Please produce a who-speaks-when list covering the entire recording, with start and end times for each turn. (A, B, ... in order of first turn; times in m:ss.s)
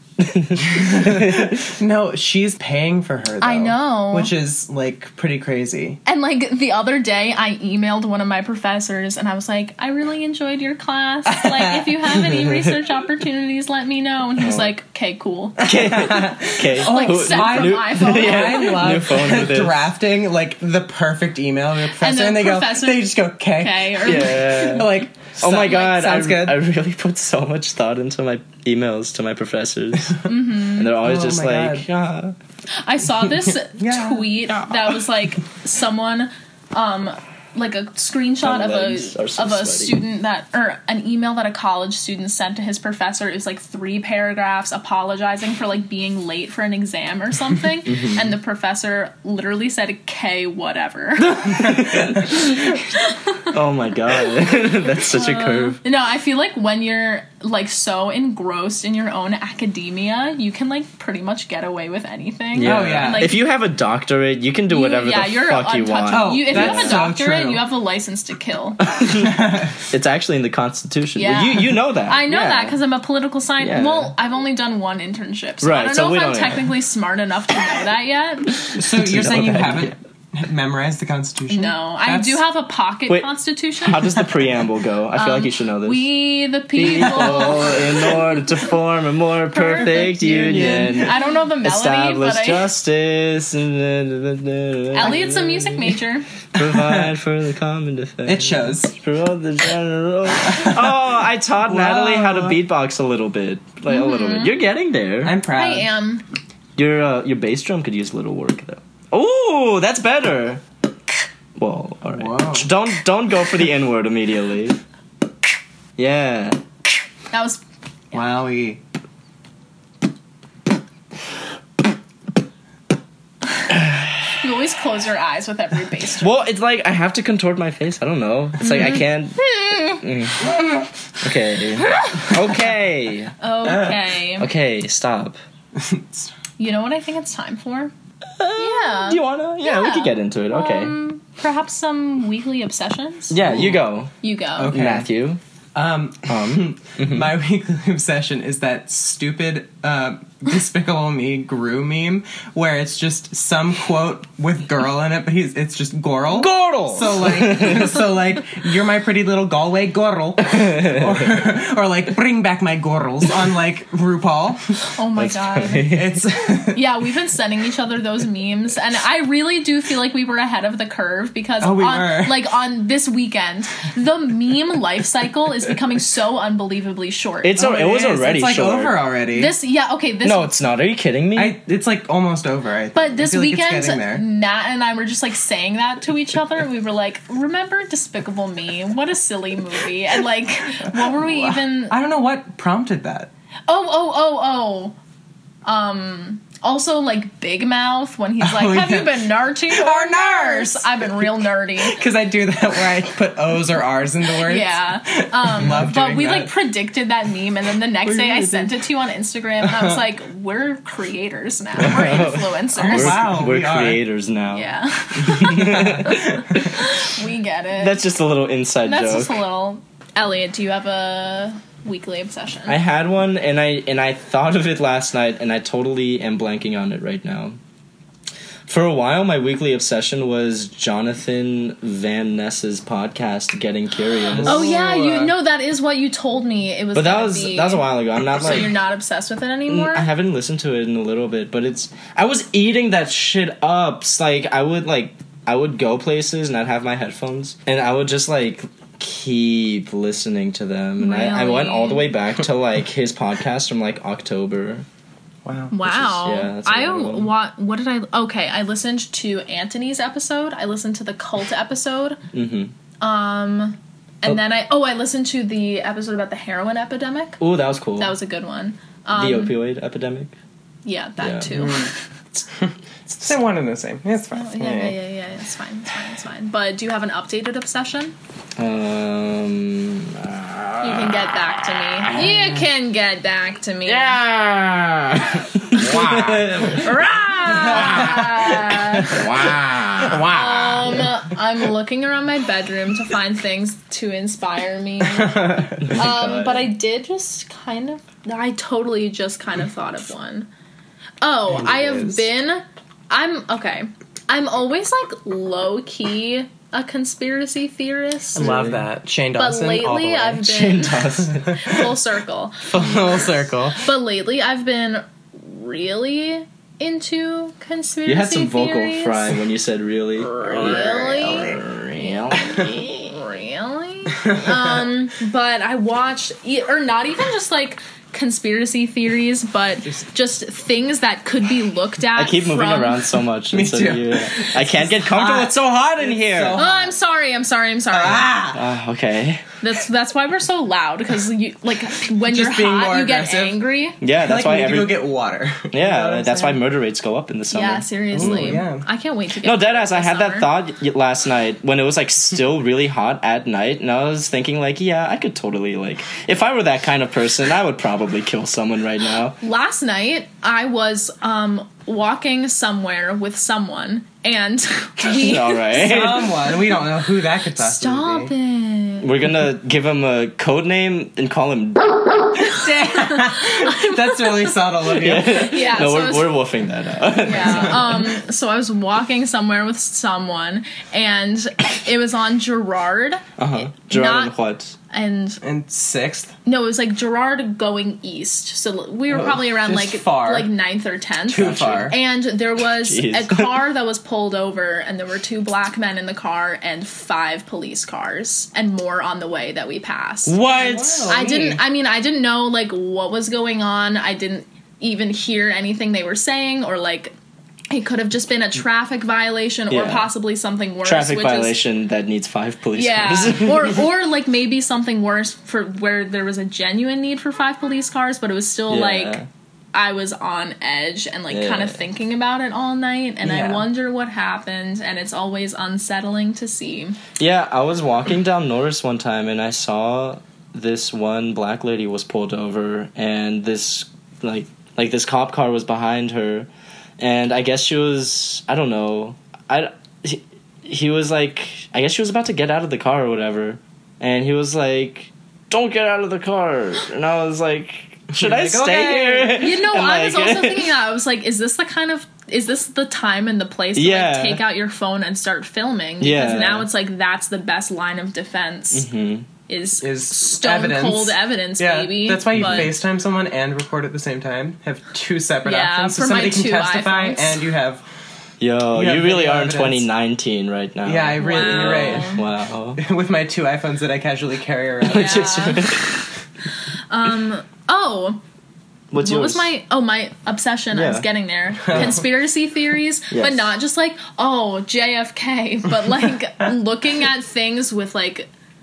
0:00.2-0:01.8 A
0:00.9-0:06.0 B
0:03.4-0:04.3 C
0:06.0-0:16.0 C
0:11.3-0:11.9 B
0:14.4-0:14.7 A
0:15.6-0:19.8 A
0:15.7-0:26.6 B
0:16.7-0:18.8 C
0:22.0-0:24.9 C
0:24.0-0:32.4 A
0:30.2-0:30.9 C
0:31.0-0:31.8 B
0:32.8-0:53.5 C
0:33.8-0:34.2 B
0:38.4-0:40.0 A
0:47.9-0:48.2 A
0:51.4-0:52.8 A
0:53.4-0:55.8 A
0:55.1-1:03.4 C
1:02.5-1:07.1 A
1:02.6-1:03.3 B
1:04.7-1:08.8 C
1:06.1-1:07.6 B
1:08.8-1:12.8 A
1:09.2-1:09.7 B
1:11.2-1:18.6 C
1:13.6-1:14.1 A
1:15.6-1:16.7 A
1:18.7-1:22.4 B
1:18.8-1:19.9 A
1:21.5-1:24.2 C
1:23.8-1:26.1 A
1:25.1-1:28.2 C
1:26.8-1:36.0 A
1:27.1-1:27.5 B
1:29.5-1:32.7 C
1:30.3-1:31.1 B
1:34.9-1:36.3 C
1:36.5-1:45.4 A
1:36.6-1:37.1 B
1:38.2-1:38.9 B
1:40.4-1:41.0 B
1:41.6-1:42.6 B
1:43.9-1:44.5 C
1:45.2-1:45.9 B
1:45.5-1:46.2 C
1:46.8-1:50.6 A
1:51.6-1:54.8 A
1:52.1-1:52.7 B
1:56.0-1:56.6 A
1:57.3-1:57.6 C
1:58.1-1:58.8 B
2:03.7-2:04.4 A
2:04.4-2:06.4 C
2:06.2-2:13.4 A
2:08.6-2:10.0 C
2:11.8-2:12.3 C
2:13.4-2:14.5 C
2:14.4-2:15.4 A
2:15.7-2:16.3 B
2:16.6-2:17.9 C
2:18.4-2:20.9 A
2:18.6-2:23.4 C
2:23.3-2:25.4 A
2:23.4-2:23.8 B
2:24.2-2:24.8 C
2:24.6-2:25.1 B
2:25.7-2:44.8 B
2:26.3-2:27.3 A
2:36.3-2:38.1 A
2:40.5-2:41.2 A
2:44.9-2:45.9 C
2:45.2-2:46.2 A
2:45.8-2:46.8 B
2:46.6-2:57.6 C
2:51.6-2:52.4 B
2:57.4-2:59.0 A
2:57.6-2:59.5 B
2:59.3-3:00.5 C
3:00.2-3:01.6 A
3:01.3-3:04.2 B
3:02.9-3:12.0 C
3:10.8-3:13.3 B
3:13.7-3:15.0 C
3:15.6-3:22.0 C
3:18.4-3:21.3 B
3:21.8-3:26.5 B
3:24.4-3:33.3 C
3:28.0-3:28.7 A
3:31.8-3:36.8 A
3:32.8-3:34.0 B
3:34.5-3:38.0 C
3:35.6-3:36.4 B
3:37.8-3:39.4 A
3:38.8-3:42.8 C
3:42.7-3:47.6 A
3:48.7-3:54.6 A
3:54.3-3:55.3 B
3:54.4-4:00.1 C
3:56.9-3:58.7 A
3:59.7-4:14.8 A
4:11.0-4:12.1 C
4:15.4-4:15.7 B
4:15.7-4:22.2 C
4:15.8-4:17.3 A
4:22.3-4:22.7 A
4:23.0-4:27.4 C
4:27.4-4:28.1 A
4:28.0-4:29.6 C
4:29.1-4:30.4 A
4:30.8-4:32.0 C
4:31.2-4:31.8 A
4:31.6-4:31.9 B
4:32.6-4:35.0 B
4:34.3-4:38.1 C
4:38.6-4:42.6 A
4:40.8-4:44.2 C
4:43.8-4:51.1 A
4:46.6-4:49.2 C
4:47.8-4:48.3 B
4:50.2-5:00.5 C
4:55.2-4:55.8 B
4:55.8-4:56.7 A
5:01.2-5:08.6 C
5:01.5-5:02.2 B
5:08.4-5:10.4 B
5:08.4-5:08.8 A
5:09.4-5:13.0 C
5:10.2-5:11.6 A
5:12.7-5:13.8 B
5:13.7-5:19.4 C
5:18.0-5:23.1 A
5:20.2-5:33.1 C
5:20.6-5:20.9 B
5:24.2-5:24.6 B
5:32.1-5:36.6 A
5:33.5-5:36.9 B
5:36.5-5:38.4 C
5:37.9-5:38.6 B
5:38.5-5:39.4 A
5:39.6-5:44.0 C
5:42.2-5:43.6 B
5:44.0-5:45.0 A
5:44.1-5:46.6 B
5:45.7-5:48.6 A
5:47.5-5:50.5 C
5:48.1-5:48.8 B
5:49.4-5:59.4 A
5:59.4-6:06.1 C
6:05.0-6:06.4 A
6:05.8-6:08.3 B
6:07.6-6:09.1 C
6:09.0-6:11.9 A
6:12.4-6:15.6 B
6:12.7-6:16.3 C
6:14.9-6:18.1 A
6:17.2-6:24.3 C
6:17.4-6:17.7 B
6:23.4-6:24.8 A
6:24.9-6:25.4 C
6:25.4-6:26.3 B
6:26.4-6:40.6 C
6:29.1-6:30.5 B
6:31.3-6:32.0 B
6:31.3-6:32.0 A
6:32.8-6:33.6 A
6:40.3-6:41.6 B
6:40.4-6:41.2 A
6:41.1-6:47.1 C
6:47.7-6:51.6 C
6:49.7-6:50.1 A
6:50.8-6:53.8 A
6:52.7-6:59.2 C
6:58.7-6:59.3 A
6:59.7-7:07.0 C
7:01.3-7:01.8 A
7:03.2-7:03.7 B
7:07.2-7:16.5 A
7:17.0-7:30.7 A
7:28.1-7:29.4 B
7:29.3-7:38.9 C
7:33.8-7:34.4 A
7:36.0-7:36.7 A
7:38.7-7:39.3 A
7:39.4-7:42.7 C
7:39.8-7:47.8 B
7:42.3-7:42.8 A
7:45.4-7:47.4 C
7:48.4-7:52.8 A
7:48.7-7:49.8 B
7:50.8-7:52.2 B
7:51.2-7:52.2 C
7:52.8-7:55.6 B
7:54.8-7:56.0 A
7:54.9-7:56.0 C
7:56.9-7:58.2 C
7:58.9-7:59.5 A
7:59.0-8:08.3 C
8:00.7-8:01.1 A
8:01.6-8:02.0 A
8:03.1-8:03.5 A